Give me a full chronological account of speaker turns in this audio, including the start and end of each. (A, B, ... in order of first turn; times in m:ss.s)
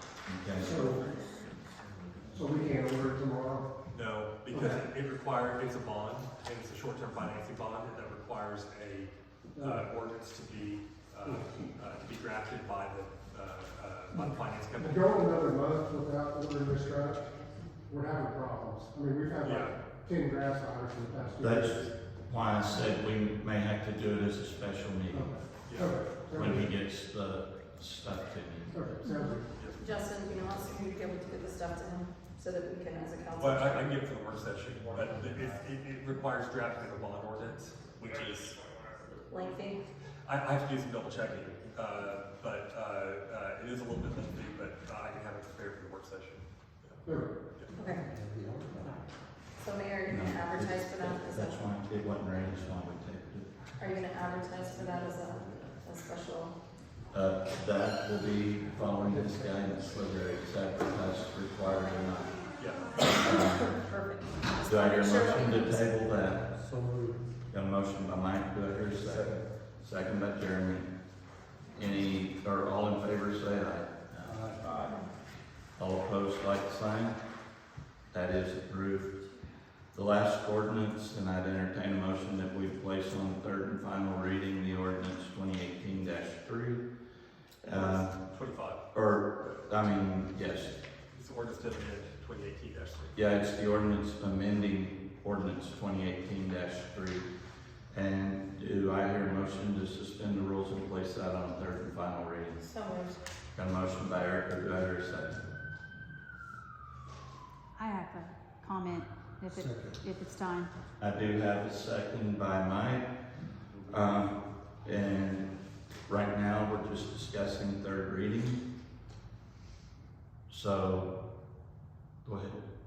0:00.2-0:00.9 A
0:00.6-0:01.1 B
0:00.9-0:01.4 C
0:02.3-0:03.8 B
0:03.9-0:15.4 D
0:04.5-0:04.8 B
0:09.5-0:09.8 B
0:14.8-0:21.9 B
0:19.4-0:19.8 D
0:21.4-0:25.7 A
0:25.1-0:26.7 B
0:25.6-0:26.1 D
0:26.3-0:28.8 A
0:28.7-0:29.6 B
0:29.0-0:29.4 E
0:29.6-0:29.8 D
0:29.8-0:33.9 C
0:33.4-0:38.6 D
0:39.3-0:39.8 C
0:40.2-0:47.7 D
0:47.0-0:47.3 B
0:47.7-0:48.0 C
0:48.0-0:49.0 B
0:49.6-0:51.6 C
0:50.1-0:53.5 A
0:53.8-0:56.6 C
0:54.9-0:55.6 B
0:57.1-1:02.5 A
1:02.6-1:03.1 D
1:03.0-1:05.9 C
1:03.1-1:03.8 A
1:04.6-1:06.6 A
1:06.6-1:07.2 B
1:07.5-1:10.9 A
1:11.7-1:14.5 A
1:14.2-1:14.9 B
1:15.8-1:17.2 A
1:18.1-1:19.1 A
1:19.9-1:26.9 A
1:27.6-1:28.3 A
1:27.7-1:28.8 D
1:28.9-1:30.7 A
1:31.1-1:33.2 D
1:33.1-1:37.3 A
1:37.9-1:42.6 A
1:42.6-1:43.2 C
1:43.5-1:45.4 A
1:47.8-1:50.7 E
1:49.5-1:50.0 B
1:51.0-1:55.5 A
1:56.0-1:58.6 A
2:00.5-2:01.1 A
2:02.2-2:02.6 A